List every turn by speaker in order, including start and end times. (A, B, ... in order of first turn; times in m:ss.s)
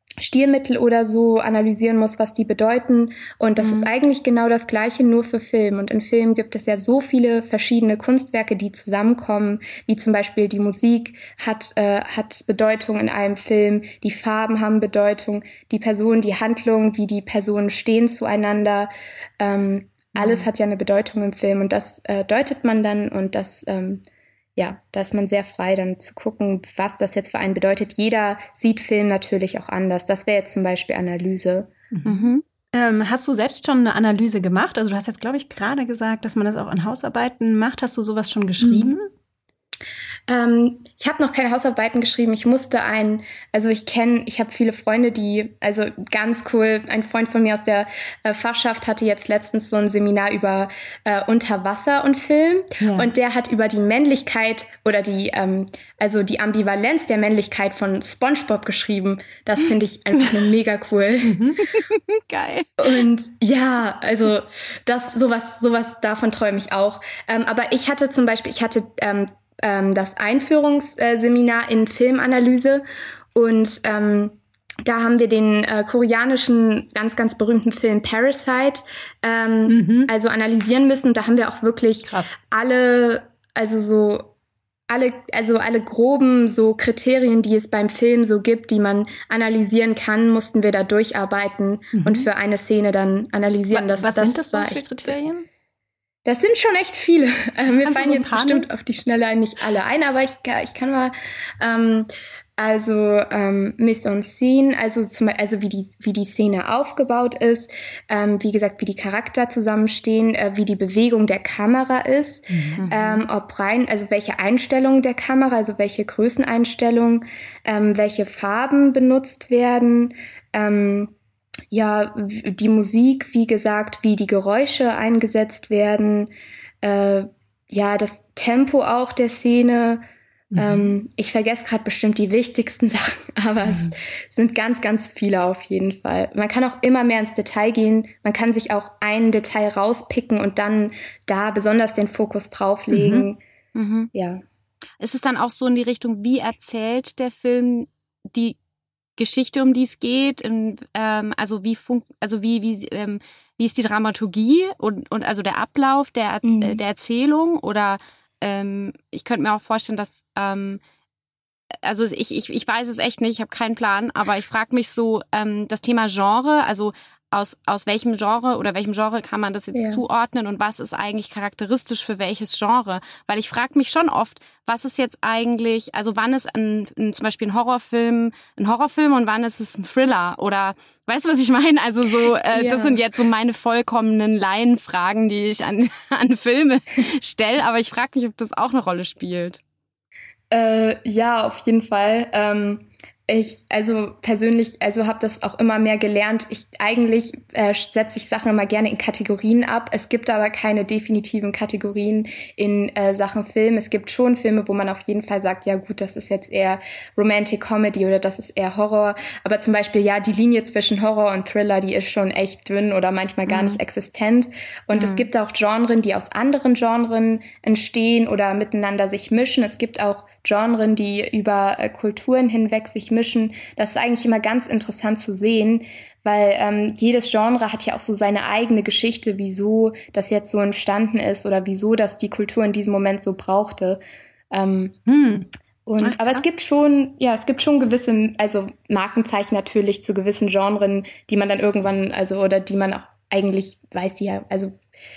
0:00.2-0:24.0 A
0:03.6-0:03.9 B
0:20.2-0:20.4 C
0:24.6-0:31.7 A
0:31.9-0:39.1 C
0:32.0-0:32.4 B
0:40.3-1:01.4 A
0:52.8-0:53.1 C
1:01.2-1:01.6 C
1:01.8-1:02.8 B
1:02.8-1:12.8 A
1:13.3-1:24.3 A
1:19.7-1:20.1 C
1:22.1-1:22.3 C
1:24.9-1:35.2 A
1:31.9-1:32.3 C
1:33.7-1:35.4 C
1:36.2-2:01.1 A
1:37.8-1:38.7 C
1:52.5-1:52.8 C
1:52.8-1:53.2 B
2:01.7-2:10.0 A
2:10.5-2:10.9 C
2:10.6-2:23.4 A
2:22.9-2:23.3 C
2:23.7-2:24.1 B
2:24.1-2:24.4 A
2:25.0-2:28.6 B
2:29.2-2:40.8 B
2:36.4-2:36.8 A
2:41.8-3:09.6 B
2:49.7-2:50.0 A
3:02.5-3:03.0 A
3:10.5-3:54.0 A
3:33.5-3:33.8 B
3:35.0-3:35.3 B
3:54.5-3:55.0 A
3:55.1-3:55.5 C
3:55.8-4:04.8 A
3:56.0-3:56.4 B